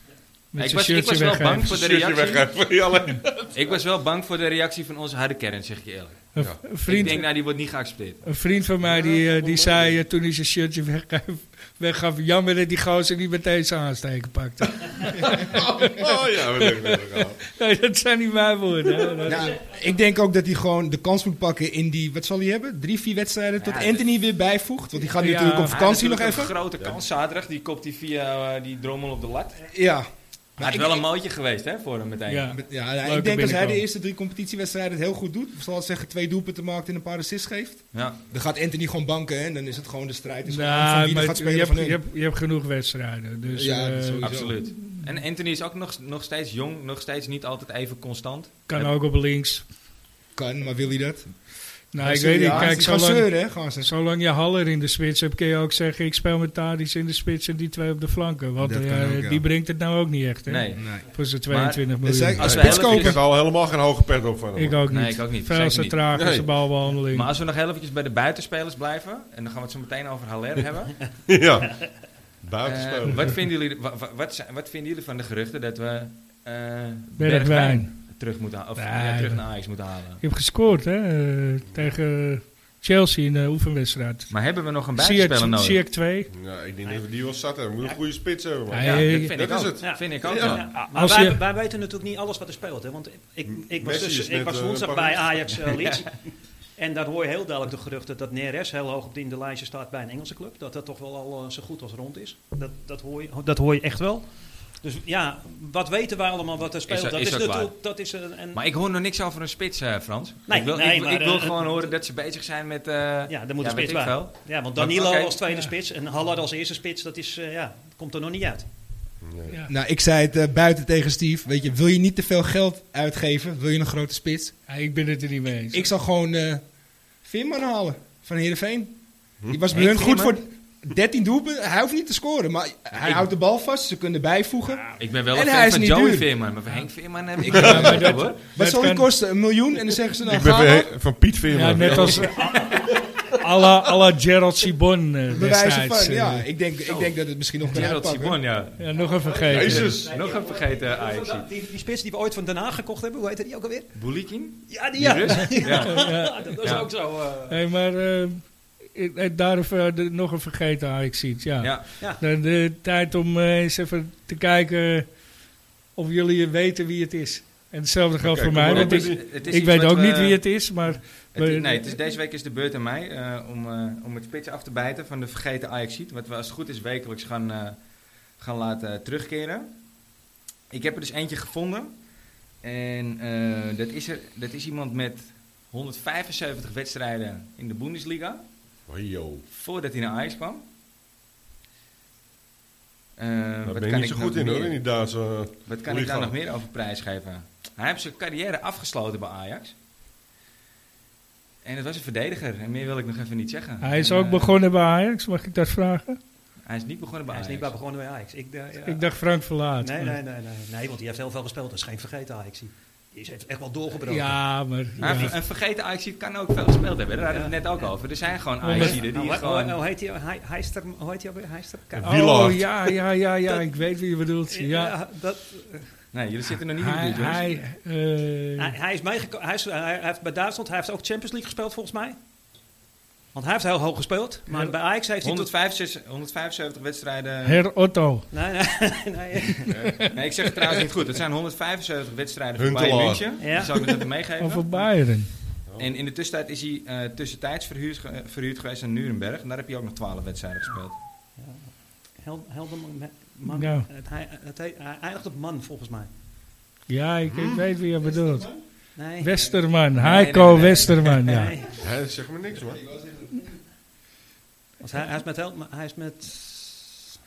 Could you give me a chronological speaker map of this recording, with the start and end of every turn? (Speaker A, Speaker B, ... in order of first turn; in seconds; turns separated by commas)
Speaker A: 0.5-1.8, Speaker B: 0.6-2.5, Speaker C: 1.6-3.8, Speaker B: 3.5-8.2, Speaker A: 6.3-7.3, Speaker C: 6.4-7.2, Speaker A: 8.2-19.6, Speaker C: 8.8-10.0, Speaker C: 15.2-17.4, Speaker D: 19.2-26.5, Speaker B: 23.6-24.1, Speaker A: 25.2-25.8, Speaker B: 25.6-29.6, Speaker D: 29.7-31.0, Speaker B: 30.6-32.5, Speaker A: 32.3-33.8, Speaker D: 32.5-42.0, Speaker B: 37.9-38.2, Speaker A: 40.5-45.1, Speaker D: 43.5-44.6, Speaker B: 44.2-48.9, Speaker A: 48.7-49.7, Speaker D: 50.3-51.3, Speaker A: 51.9-62.5, Speaker D: 52.0-53.9, Speaker D: 58.6-59.5, Speaker B: 60.5-63.2, Speaker D: 60.8-61.1, Speaker D: 62.0-63.2, Speaker C: 62.4-64.9, Speaker A: 64.5-67.3, Speaker B: 64.9-66.0, Speaker C: 66.1-66.5, Speaker B: 67.0-71.0, Speaker C: 71.3-73.4, Speaker B: 72.6-80.2, Speaker A: 77.2-78.0, Speaker A: 78.8-84.4, Speaker B: 84.3-85.8, Speaker A: 84.9-86.3, Speaker C: 86.3-90.7, Speaker A: 88.7-89.4, Speaker B: 88.8-90.7, Speaker E: 89.8-108.6, Speaker A: 90.7-91.4, Speaker C: 93.5-95.6, Speaker B: 106.9-107.7, Speaker B: 108.5-115.4, Speaker E: 110.5-111.9, Speaker E: 113.3-118.7, Speaker C: 119.2-119.5, Speaker D: 119.7-124.5, Speaker A: 124.7-125.9, Speaker D: 125.7-126.6, Speaker D: 127.2-136.3, Speaker B: 129.7-130.4, Speaker B: 133.0-133.2, Speaker B: 135.0-138.4, Speaker D: 137.4-140.9, Speaker A: 137.5-139.1, Speaker C: 140.2-143.4, Speaker A: 141.5-142.6, Speaker B: 141.9-142.2, Speaker A: 143.3-146.5, Speaker D: 145.3-148.4, Speaker B: 146.9-151.5, Speaker A: 148.8-150.0, Speaker C: 149.4-150.1, Speaker E: 149.8-154.0, Speaker B: 153.9-156.9, Speaker E: 154.7-157.6, Speaker A: 155.6-156.9, Speaker A: 157.5-165.2, Speaker B: 161.6-161.8, Speaker A: 165.9-172.0, Speaker C: 168.2-169.2, Speaker B: 168.6-170.4, Speaker B: 171.3-177.8, Speaker B: 178.4-179.7, Speaker B: 180.7-181.9, Speaker B: 182.6-188.4, Speaker C: 188.9-189.4, Speaker B: 189.5-190.6, Speaker B: 193.2-194.8, Speaker C: 193.6-196.3, Speaker B: 195.7-199.7, Speaker B: 201.6-204.6, Speaker A: 203.8-206.2, Speaker B: 206.7-207.7, Speaker E: 207.3-209.1, Speaker A: 208.8-210.2, Speaker E: 209.8-214.4, Speaker A: 214.0-215.3, Speaker B: 215.0-219.8, Speaker E: 217.3-217.9, Speaker A: 218.6-219.0, Speaker E: 218.7-222.2, Speaker C: 221.9-222.9, Speaker A: 222.0-224.9, Speaker E: 224.5-225.9, Speaker B: 226.1-227.6, Speaker A: 226.8-228.7, Speaker E: 228.6-232.2, Speaker E: 233.3-235.5, Speaker B: 235.2-237.6, Speaker A: 237.4-238.2, Speaker E: 238.3-239.8, Speaker A: 239.7-240.2, Speaker C: 239.7-239.9, Speaker B: 240.1-245.2, Speaker C: 242.6-243.4, Speaker E: 243.4-244.1, Speaker A: 244.4-245.3, Speaker C: 245.6-245.9, Speaker B: 245.8-251.0, Speaker E: 251.4-256.1, Speaker A: 253.4-253.9, Speaker A: 256.9-258.5, Speaker C: 257.2-257.7, Speaker D: 258.1-258.5, Speaker E: 258.9-259.5, Speaker A: 259.2-261.6, Speaker B: 259.9-261.4, Speaker E: 261.2-261.8, Speaker C: 261.8-262.8, Speaker D: 262.7-263.4, Speaker E: 264.8-266.9